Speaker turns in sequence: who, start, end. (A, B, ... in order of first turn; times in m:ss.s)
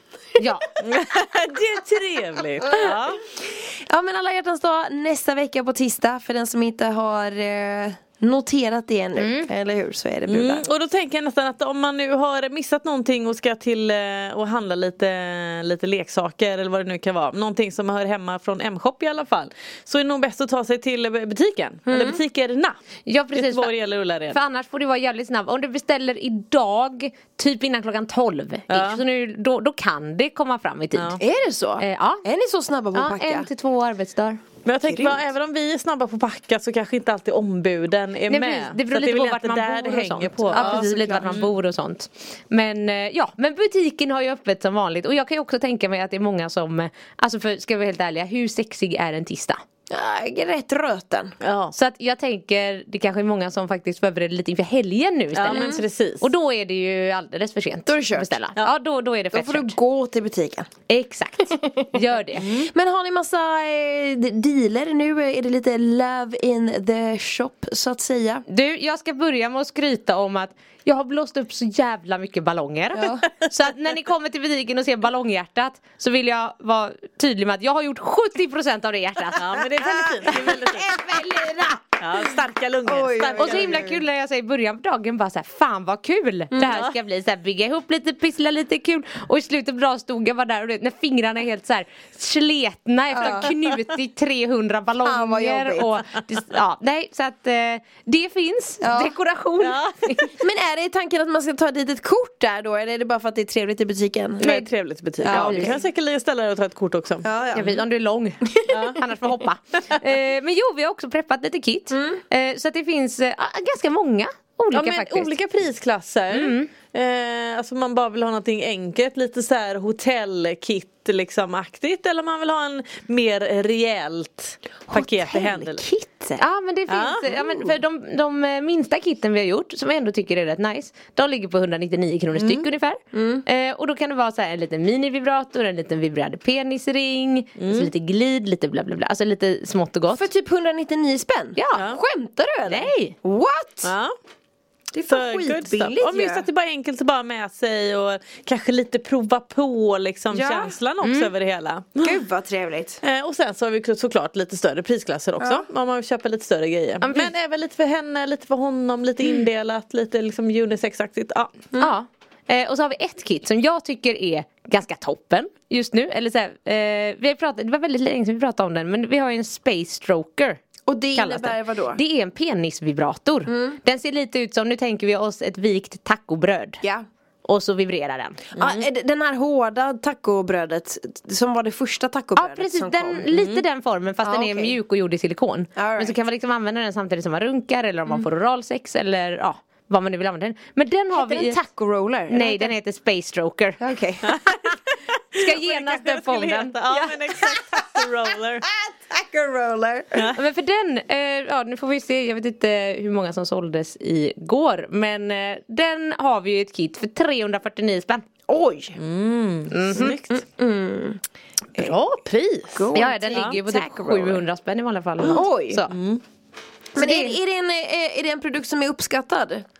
0:00.4-0:00.7 A
0:00.8-0:03.2 B
0:02.8-0:10.7 C
0:09.2-0:09.5 A
0:10.3-0:22.8 B
0:21.9-0:22.2 C
0:23.0-0:23.7 A
0:23.3-0:24.4 B
0:24.3-0:31.2 A
0:28.7-0:29.0 B
0:30.9-0:31.2 B
0:31.2-0:33.5 C
0:31.8-0:32.2 A
0:32.9-0:34.4 A
0:34.6-0:41.5 B
0:34.8-0:35.3 C
0:38.3-0:49.6 A
0:40.5-0:41.4 C
0:49.9-0:51.4 C
0:51.4-0:51.7 B
0:51.7-0:59.7 A
0:55.3-0:56.3 B
0:55.5-0:55.8 C
0:57.8-0:58.4 C
0:59.3-1:00.7 C
1:00.9-1:02.5 A
1:02.3-1:08.4 C
1:02.4-1:02.7 B
1:08.5-1:19.5 A
1:12.9-1:13.3 C
1:19.4-1:20.9 B
1:19.8-1:22.2 C
1:22.0-1:23.9 B
1:22.8-1:24.0 C
1:23.4-1:40.3 A
1:26.5-1:26.8 C
1:33.1-1:33.5 C
1:35.0-1:36.0 C
1:38.8-1:39.1 C
1:39.6-1:40.3 B
1:40.4-1:44.5 C
1:44.4-1:45.8 A
1:44.4-1:47.8 B
1:45.2-1:45.8 C
1:47.2-1:47.8 C
1:47.5-1:55.3 A
1:48.4-1:48.8 C
1:48.7-1:49.0 B
1:51.9-1:52.2 C
1:54.7-2:05.8 B
1:56.3-1:56.7 A
2:04.9-2:06.4 C
2:06.4-2:20.3 A
2:06.9-2:07.4 B
2:12.3-2:12.7 B
2:13.1-2:13.4 C
2:17.6-2:17.9 B
2:20.1-2:23.9 C
2:21.5-2:21.9 A
2:21.7-2:22.0 B
2:22.7-2:23.2 A
2:23.8-2:24.1 B
2:24.9-2:26.5 C
2:25.1-2:32.2 B
2:30.3-2:30.7 C
2:31.0-2:31.3 A
2:32.0-2:33.0 C
2:33.0-2:41.5 B
2:35.4-2:35.6 C
2:37.0-2:37.3 A
2:41.8-2:50.6 A
2:50.8-2:52.0 C
2:51.1-2:56.8 A
2:53.5-2:53.8 C
2:57.4-2:58.4 A
2:58.6-2:58.8 B
2:58.6-3:03.6 C
3:02.4-3:11.6 A
3:04.2-3:04.8 C
3:05.8-3:06.2 C
3:11.1-3:12.7 C
3:12.3-3:13.8 A
3:13.8-3:14.4 C
3:14.2-3:18.6 B
3:15.4-3:16.8 A
3:17.1-3:18.1 C
3:18.6-3:20.3 C
3:20.3-3:28.2 A
3:28.5-3:29.0 C
3:29.0-3:30.4 B
3:29.7-3:30.2 A
3:29.9-3:31.2 C
3:31.8-3:33.6 B
3:32.7-3:34.4 C
3:32.9-3:35.9 A
3:35.2-3:35.8 C
3:35.9-3:36.2 B
3:36.9-3:39.6 C
3:37.0-3:37.4 A